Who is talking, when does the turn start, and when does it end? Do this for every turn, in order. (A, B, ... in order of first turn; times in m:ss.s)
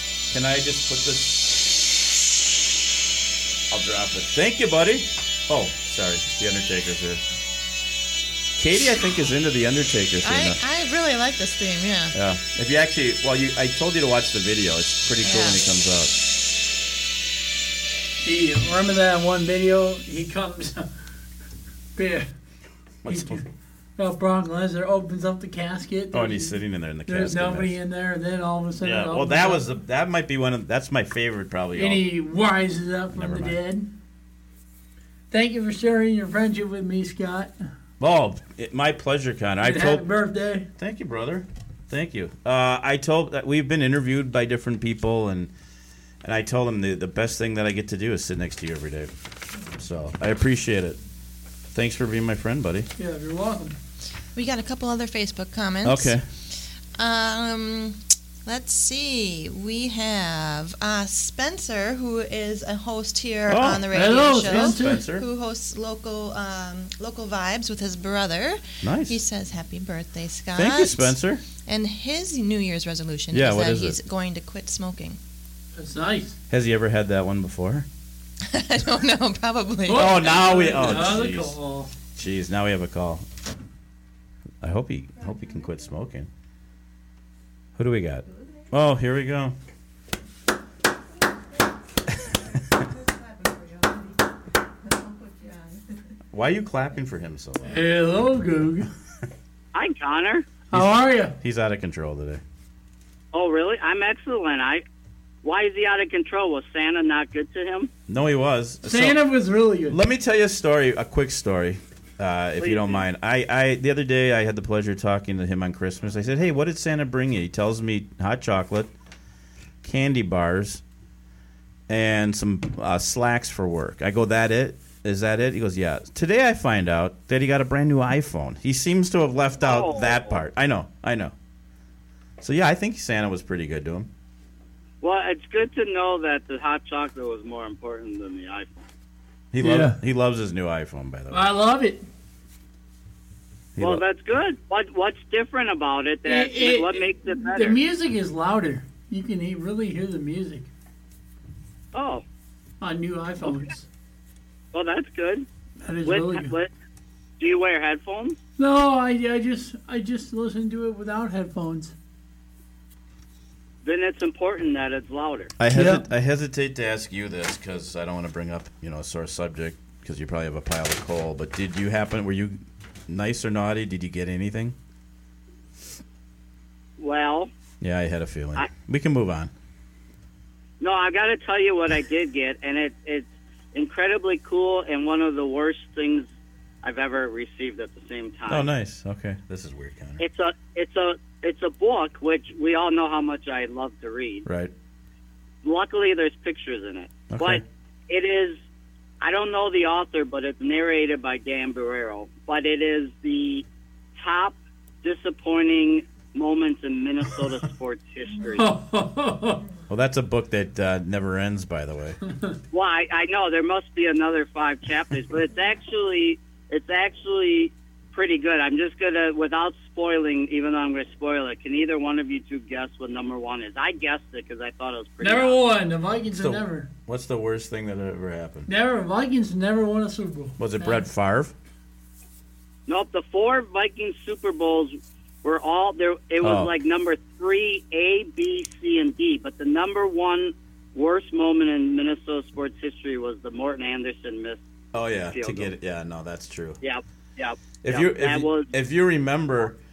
0:00.3-0:01.5 A
0:03.7-0:07.2 A
0:08.6-0:10.6 A
0:10.2-0:12.1 B
0:12.1-0:16.2 A
0:15.2-0:15.6 B
0:18.2-0:20.9 C
0:22.0-0:22.3 C
0:23.0-0:23.4 A
0:23.1-0:23.4 C
0:24.0-0:29.6 C
0:26.1-0:27.8 A
0:28.8-0:32.0 A
0:31.7-0:33.9 C
0:33.1-0:33.6 A
0:35.3-0:37.5 C
0:38.0-0:40.1 A
0:39.6-0:40.7 C
0:40.8-0:45.5 A
0:46.2-0:49.1 A
0:49.7-0:51.0 A
0:51.7-0:52.9 A
0:53.0-0:53.8 C
0:54.3-0:56.2 B
0:55.8-0:56.2 A
0:57.0-1:15.2 B
1:03.5-1:05.2 A
1:03.9-1:05.0 C
1:08.8-1:09.2 A
1:10.5-1:11.4 A
1:13.3-1:14.0 A
1:15.8-1:16.4 C
1:16.5-1:17.9 A
1:18.4-1:21.1 B
1:19.8-1:21.9 C
1:19.9-1:21.6 A
1:22.2-1:23.2 A
1:24.6-1:26.3 A
1:27.8-1:29.6 A
1:33.1-1:34.1 B
1:34.9-1:35.8 B
1:36.3-1:37.9 A
1:37.6-1:38.9 C
1:39.7-1:40.4 D
1:40.7-1:41.4 C
1:40.7-1:42.4 A
1:43.3-1:44.8 D
1:45.4-1:47.9 D
1:48.1-1:49.2 A
1:48.8-1:50.0 C
1:49.9-1:58.9 A
1:52.6-1:53.0 D
1:59.8-2:00.8 A
2:01.9-2:11.3 A
2:09.6-2:10.4 D
2:12.4-2:14.1 A
2:15.0-2:18.7 D
2:19.5-2:21.5 A
2:19.6-2:20.0 C
2:21.3-2:22.0 C
2:23.8-2:24.0 A
2:23.8-2:27.8 D
2:26.2-2:30.7 C
2:31.9-2:32.2 D
2:32.8-2:33.8 C
2:34.7-2:35.5 D
2:35.8-2:36.5 C
2:36.0-2:36.7 D
2:37.4-2:38.4 D
2:38.6-2:41.9 C
2:43.8-2:45.5 D
2:45.6-2:54.8 A
2:45.7-2:46.0 C
2:57.0-2:57.5 D
2:57.8-2:59.5 A
3:00.8-3:06.2 D
3:06.8-3:08.7 D
3:08.5-3:10.2 A
3:10.2-3:14.4 D
3:14.4-3:14.7 A
3:15.6-3:18.6 D
3:17.3-3:17.6 A
3:19.2-3:23.6 D
3:24.2-3:28.7 D
3:28.5-3:29.6 C
3:29.9-3:32.2 A
3:32.3-3:32.6 C
3:32.7-3:45.6 D
3:45.2-3:46.9 C
3:46.4-3:48.7 A
3:48.7-3:51.0 C
3:50.6-3:51.5 A
3:52.9-4:04.6 D
3:56.4-3:56.7 A
4:04.9-4:06.8 A
4:05.3-4:05.7 D
4:06.8-4:08.7 D
4:07.8-4:09.8 A